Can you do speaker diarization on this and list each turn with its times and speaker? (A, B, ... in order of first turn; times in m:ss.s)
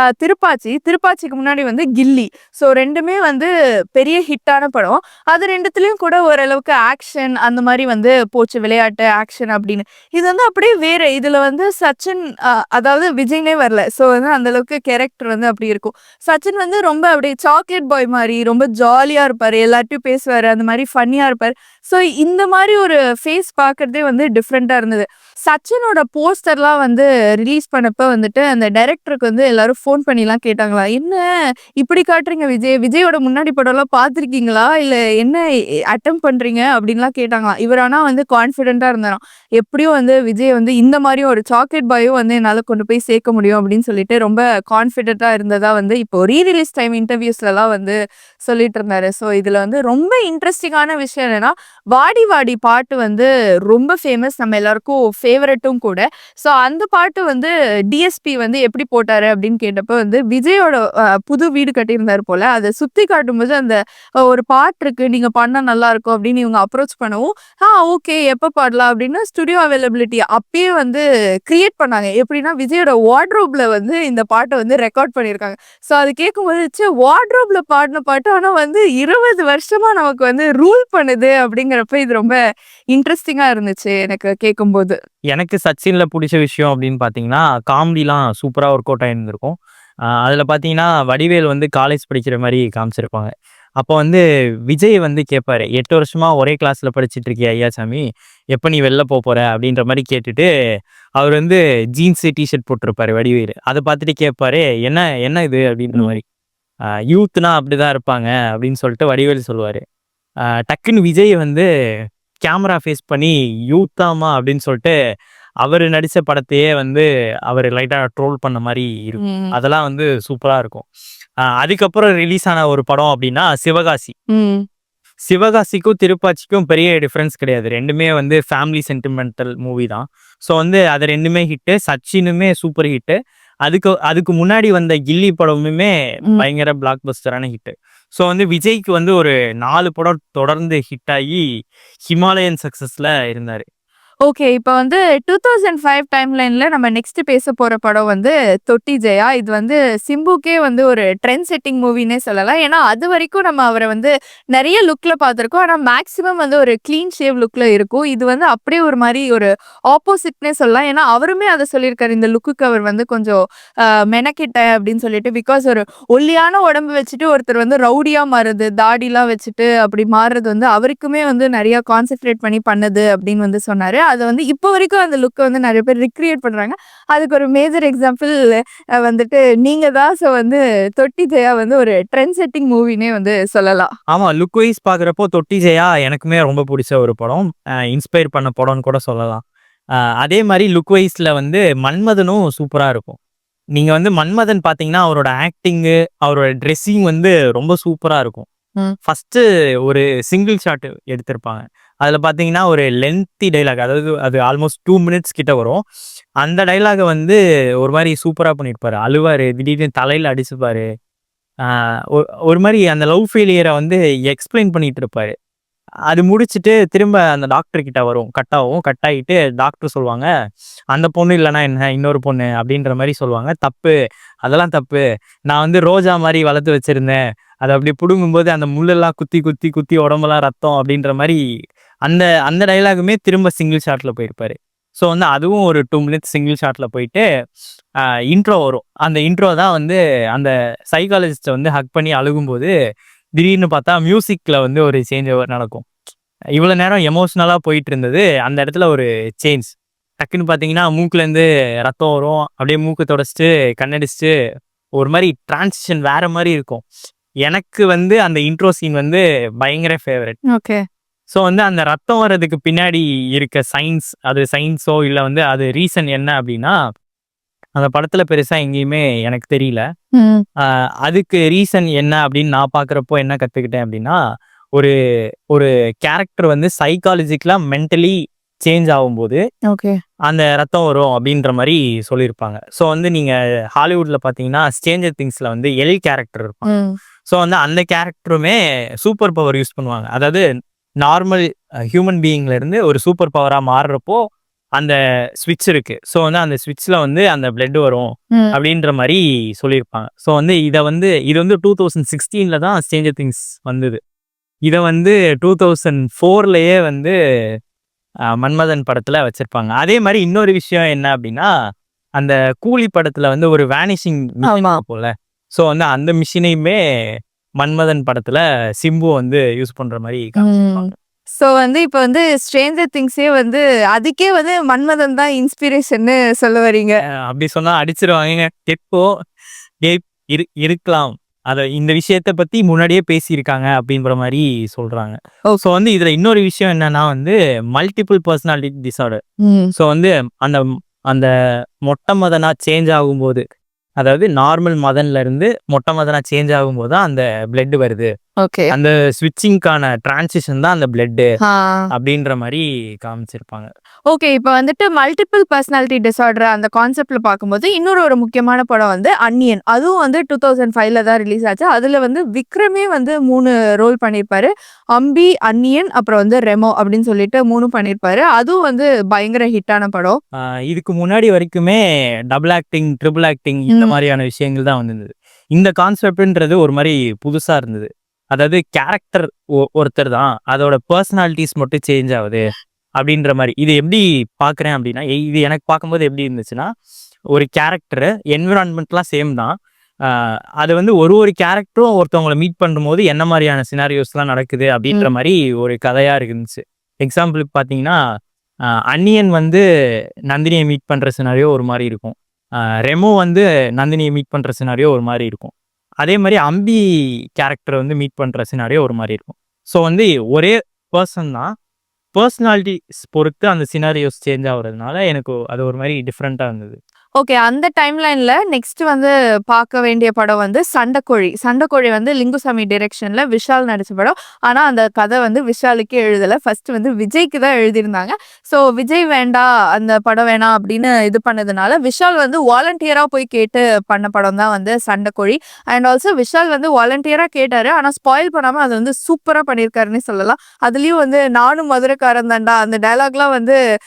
0:00.2-0:31.2 A
0:31.8-0:35.4 A
0:35.9-1:22.4 A
1:22.9-1:25.0 A
1:25.3-1:29.6 B
1:30.2-1:40.5 B
1:41.2-1:46.2 B
1:45.9-1:46.2 A
1:47.1-1:49.8 B
1:50.5-1:51.7 B
1:52.4-1:54.9 B
1:55.6-2:00.9 B
1:59.2-1:59.5 A
2:01.4-2:04.1 B
2:04.3-2:04.6 A
2:05.2-2:21.4 B
2:22.1-2:23.7 B
2:24.3-2:43.4 A
2:44.1-3:03.9 A
3:04.1-3:09.4 B
3:10.2-3:13.2 B
3:13.8-3:18.5 B
3:19.1-3:25.8 B
3:26.4-3:30.9 B
3:31.6-3:35.3 B
3:36.1-3:40.3 B
3:40.9-3:51.4 B
3:52.1-3:57.2 B
3:58.1-4:02.7 B
4:03.4-4:05.8 B
4:06.6-4:14.3 B
4:15.0-4:16.8 B
4:17.5-4:20.4 B
4:20.5-4:20.8 A
4:21.3-4:26.8 B
4:27.8-4:29.8 B
4:30.2-4:30.4 A
4:30.6-4:34.2 B
4:35.5-4:39.4 B
4:39.7-4:40.0 A
4:40.3-4:46.7 B
4:46.6-4:47.0 A
4:47.3-4:50.4 B
4:51.0-4:54.2 B
4:54.8-5:04.0 B
5:04.7-5:07.2 B
5:08.3-5:11.5 B
5:12.2-5:16.8 B
5:14.4-5:14.8 A
5:17.6-5:20.9 B
5:20.4-5:26.9 A
5:27.2-5:29.1 B
5:29.8-5:39.2 B
5:39.4-5:39.7 A
5:39.8-5:41.3 B
5:41.8-5:43.4 B
5:44.0-5:48.1 B
5:48.4-5:48.7 A
5:48.7-5:51.3 B
5:51.4-5:51.8 A
5:51.9-5:53.7 B
5:54.1-6:10.2 A
6:10.3-6:11.8 B
6:12.3-6:22.5 B
6:13.7-6:14.0 A
6:23.0-6:26.7 B
6:27.3-6:29.5 B
6:30.0-6:38.0 B
6:38.9-6:39.6 B
6:40.3-6:42.2 B
6:42.8-6:46.8 B
6:47.4-6:51.5 B
6:52.2-6:56.8 B
6:57.2-7:23.6 A